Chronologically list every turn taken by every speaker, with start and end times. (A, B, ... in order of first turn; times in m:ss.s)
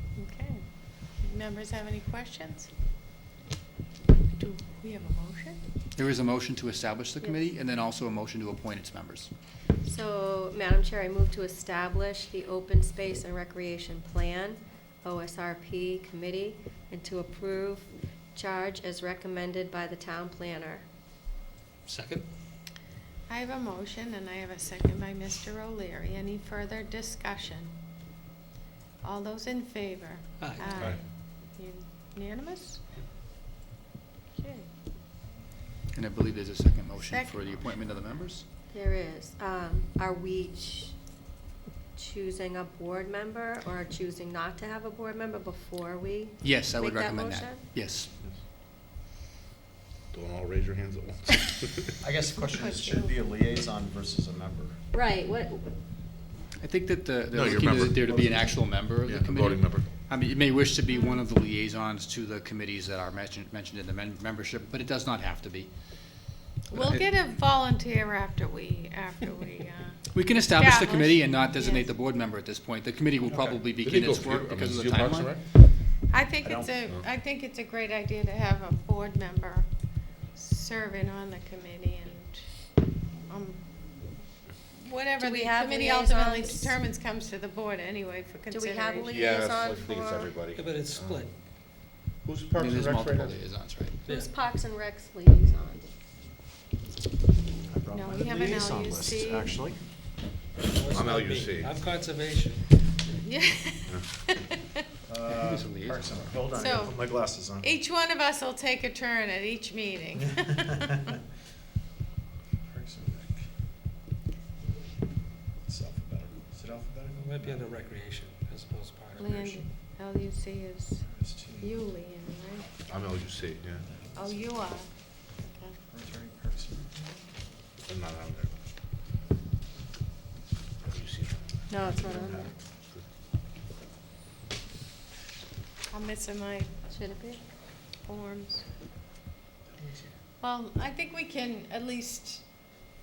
0:00.2-0:02.7 A
0:04.4-0:05.6 A
0:06.0-0:09.3 B
0:09.8-0:20.8 C
0:21.9-0:22.2 D
0:23.3-0:27.8 A
0:29.0-0:32.8 A
0:30.4-0:30.8 D
0:30.8-0:31.0 E
0:34.4-0:34.6 C
0:35.9-0:38.4 B
0:37.0-0:37.9 A
0:38.7-0:41.0 C
0:42.0-0:47.8 C
0:46.4-0:48.1 B
0:50.1-0:52.0 E
0:52.0-0:54.8 F
0:52.5-0:53.1 A
0:54.9-0:55.7 C
0:56.6-1:05.7 B
0:57.3-0:59.9 E
1:00.9-1:01.2 A
1:06.7-1:11.9 A
1:06.7-1:07.1 B
1:10.1-1:15.4 B
1:13.2-1:13.6 F
1:13.7-1:15.4 E
1:16.1-1:19.7 A
1:16.4-1:16.7 F
1:20.3-1:22.8 A
1:23.3-1:24.2 A
1:24.7-1:29.1 A
1:25.2-1:26.8 C
1:28.5-1:30.4 C
1:29.0-1:31.3 E
1:30.5-1:31.3 D
1:32.2-1:33.4 E
1:32.6-1:34.0 B
1:34.1-1:35.8 C
1:34.1-1:34.3 D
1:37.7-1:39.8 F
1:37.9-1:39.5 A
1:40.6-1:42.9 D
1:40.9-1:41.8 E
1:43.2-1:44.6 A
1:43.9-1:44.2 E
1:45.1-1:47.7 F
1:45.3-1:46.4 B
1:46.5-1:47.0 A
1:47.6-1:50.9 A
1:50.2-1:51.0 F
1:52.6-1:53.5 F
1:55.6-1:57.6 F
1:57.2-1:59.6 D
1:59.2-2:01.0 A
2:01.0-2:01.8 F
2:01.6-2:02.8 A
2:02.8-2:04.0 E
2:03.8-2:04.5 F
2:04.1-2:05.8 A
2:05.9-2:07.2 F
2:07.8-2:08.6 E
2:10.9-2:11.7 E
2:11.7-2:12.6 C
2:11.8-2:12.6 F
2:15.9-2:16.7 A
2:16.9-2:17.4 C
2:18.1-2:18.6 A
2:19.8-2:20.1 F
2:20.4-2:22.4 A